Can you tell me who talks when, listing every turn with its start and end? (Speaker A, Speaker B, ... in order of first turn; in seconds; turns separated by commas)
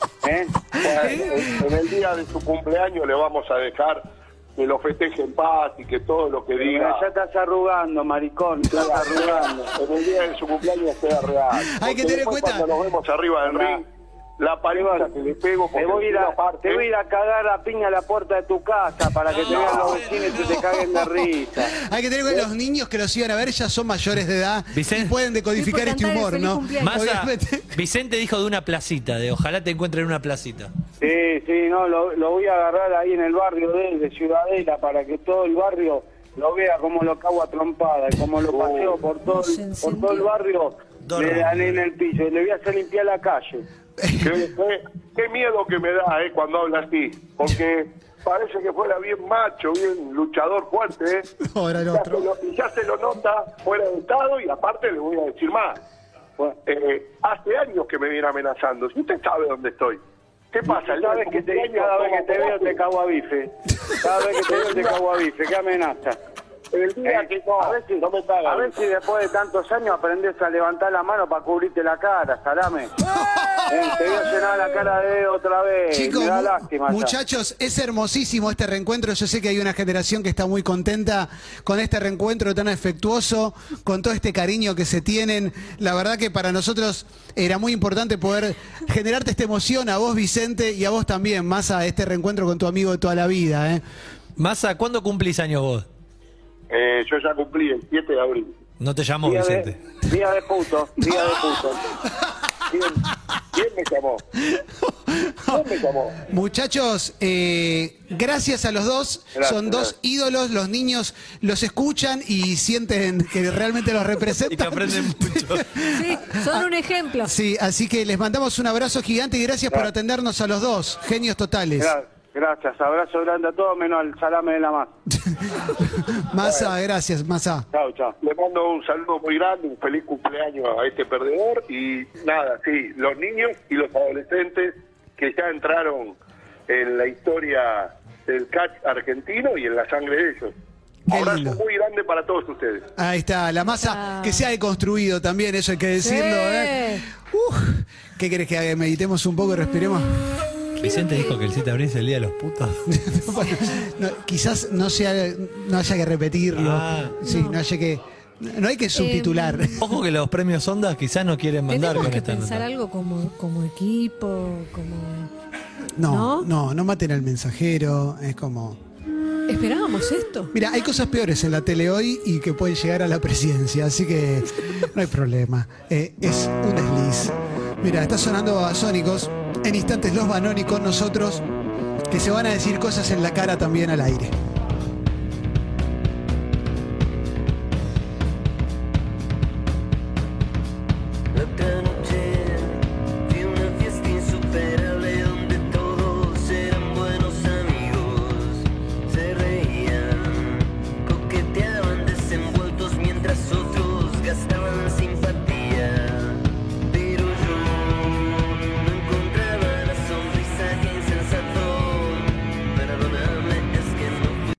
Speaker A: 0.2-0.7, Speaker B: 0.8-4.0, Speaker B: 4.5-7.0, Speaker A: 6.6-9.7, Speaker B: 8.6-13.8, Speaker C: 11.5-12.7, Speaker A: 13.4-13.8, Speaker B: 14.4-16.9, Speaker A: 14.7-15.1, Speaker A: 15.7-21.8, Speaker D: 19.3-20.6, Speaker B: 19.5-20.0, Speaker C: 20.9-27.8, Speaker D: 24.7-25.1, Speaker E: 25.5-27.0, Speaker D: 26.8-30.7, Speaker A: 31.0-43.6, Speaker B: 38.5-39.0, Speaker E: 39.3-40.2, Speaker D: 41.0-41.8, Speaker C: 44.0-44.4, Speaker B: 44.2-51.3, Speaker C: 51.4-52.3, Speaker B: 51.9-55.8, Speaker B: 56.6-60.0, Speaker B: 60.5-62.8, Speaker A: 60.6-66.2, Speaker B: 64.5-65.0, Speaker B: 66.7-68.8, Speaker A: 67.0-73.0, Speaker C: 73.0-74.0, Speaker A: 73.7-77.2, Speaker C: 75.9-93.8, Speaker D: 94.4-95.9, Speaker B: 96.7-98.5, Speaker D: 98.8-99.8, Speaker A: 99.2-101.8, Speaker B: 101.0-101.8, Speaker B: 102.7-104.2, Speaker C: 104.5-105.7, Speaker B: 105.5-106.2, Speaker C: 106.2-116.7, Speaker A: 109.3-109.9, Speaker D: 114.4-115.8, Speaker E: 115.9-117.3, Speaker C: 117.2-122.0, Speaker A: 121.8-124.9, Speaker C: 125.3-127.7, Speaker B: 126.4-126.7, Speaker A: 127.7-128.1, Speaker B: 128.2-136.2, Speaker B: 136.7-140.5, Speaker C: 141.1-141.6, Speaker B: 141.1-142.8, Speaker C: 143.0-150.3, Speaker E: 143.7-144.5, Speaker E: 146.0-147.0, Speaker D: 150.8-152.9, Speaker E: 150.8-151.4, Speaker C: 152.9-159.9, Speaker D: 156.5-157.2, Speaker E: 157.2-157.6, Speaker E: 158.9-159.8, Speaker D: 159.8-162.6, Speaker E: 161.7-165.3, Speaker C: 166.0-168.8, Speaker E: 166.1-166.5, Speaker E: 169.5-170.5, Speaker C: 170.5-181.4, Speaker C: 182.1-184.3, Speaker F: 191.3-206.3, Speaker F: 206.9-208.2, Speaker F: 208.8-212.2, Speaker F: 213.0-214.1